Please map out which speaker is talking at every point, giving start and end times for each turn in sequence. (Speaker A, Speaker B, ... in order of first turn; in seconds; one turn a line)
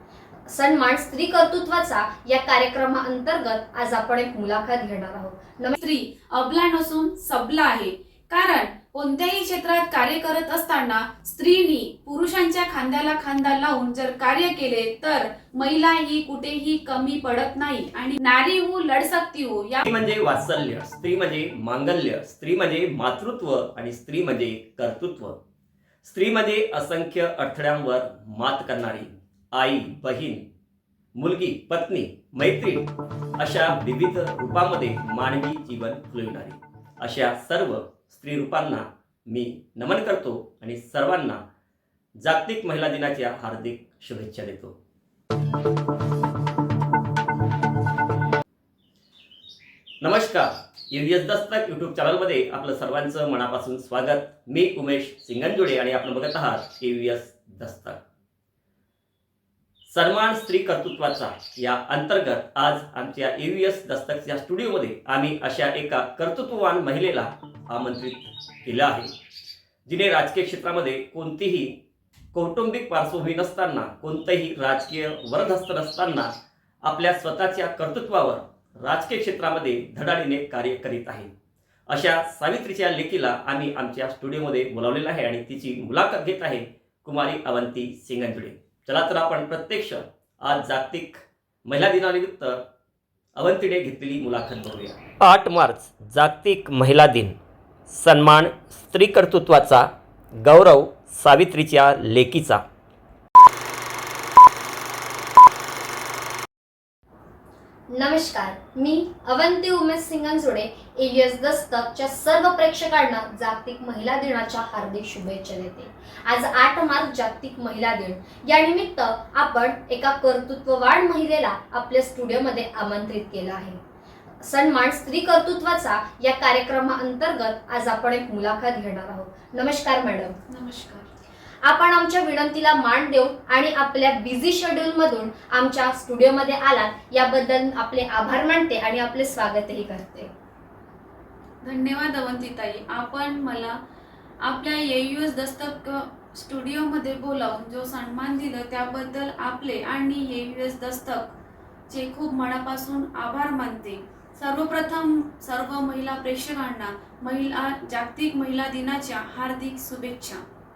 Speaker A: 0.5-5.7
Speaker B: 5.7-19.9
Speaker C: 19.9-25.4
Speaker C: 26.0-30.4
Speaker C: 31.1-41.4
Speaker C: 42.2-44.7
Speaker C: 50.0-58.0
Speaker C: 59.9-69.1
Speaker C: 69.8-71.8
Speaker C: 72.3-76.3
Speaker C: 76.8-81.3
Speaker C: 81.9-92.6
Speaker C: 93.3-97.4
Speaker C: 97.9-99.9
Speaker C: 100.4-102.6
Speaker A: 107.9-123.8
Speaker A: 124.4-130.3
Speaker B: 130.5-131.1
Speaker A: 131.6-140.3
Speaker B: 141.6-143.8
Speaker B: 144.4-151.3
Speaker B: 151.9-160.4